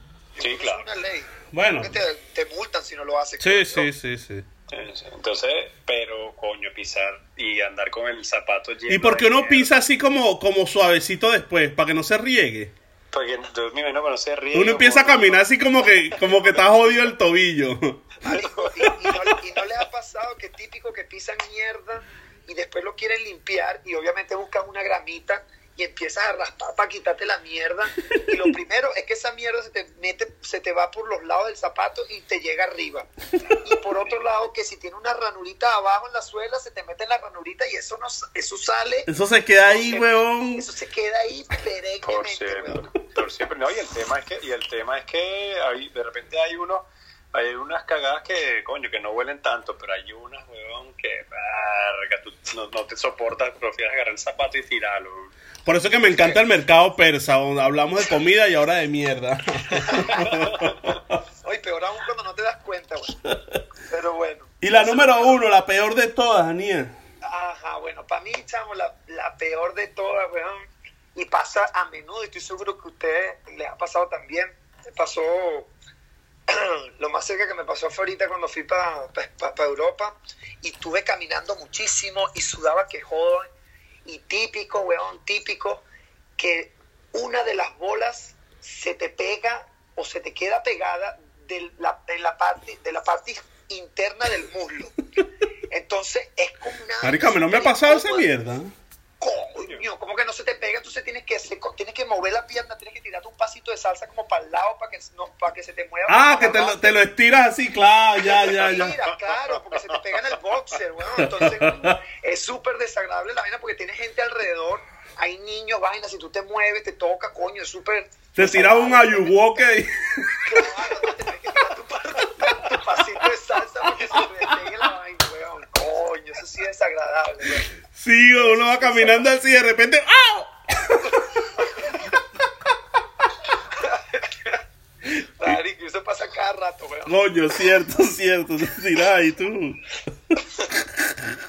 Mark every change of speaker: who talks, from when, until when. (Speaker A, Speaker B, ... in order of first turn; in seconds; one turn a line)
Speaker A: 0.3-3.9
Speaker B: 0.4-0.8
Speaker C: 1.5-1.9
Speaker C: 3.4-4.5
Speaker B: 4.7-9.7
Speaker C: 8.9-12.7
Speaker B: 13.1-15.5
Speaker C: 14.5-18.1
Speaker A: 18.2-33.1
Speaker C: 18.9-19.3
Speaker A: 33.6-39.1
Speaker C: 39.1-40.7
Speaker A: 39.7-42.9
Speaker B: 42.0-55.3
Speaker C: 55.6-61.0
Speaker B: 59.8-60.8
Speaker A: 60.0-60.2
Speaker A: 61.4-63.2
Speaker A: 63.9-65.4
Speaker C: 64.6-66.9
Speaker A: 67.2-70.6
Speaker A: 71.1-75.7
Speaker A: 76.5-83.5
Speaker A: 84.0-85.8
Speaker A: 86.4-95.0
Speaker A: 95.7-98.3
Speaker C: 97.0-98.7
Speaker A: 99.2-107.0
Speaker B: 99.5-99.8
Speaker C: 106.1-109.0
Speaker A: 108.4-119.6
Speaker B: 108.4-109.9
Speaker C: 111.2-112.0
Speaker C: 118.3-121.1
Speaker A: 120.4-127.7
Speaker C: 127.9-131.1
Speaker A: 128.3-129.3
Speaker A: 133.8-134.6
Speaker C: 135.0-135.6
Speaker A: 135.4-137.2
Speaker C: 137.1-141.2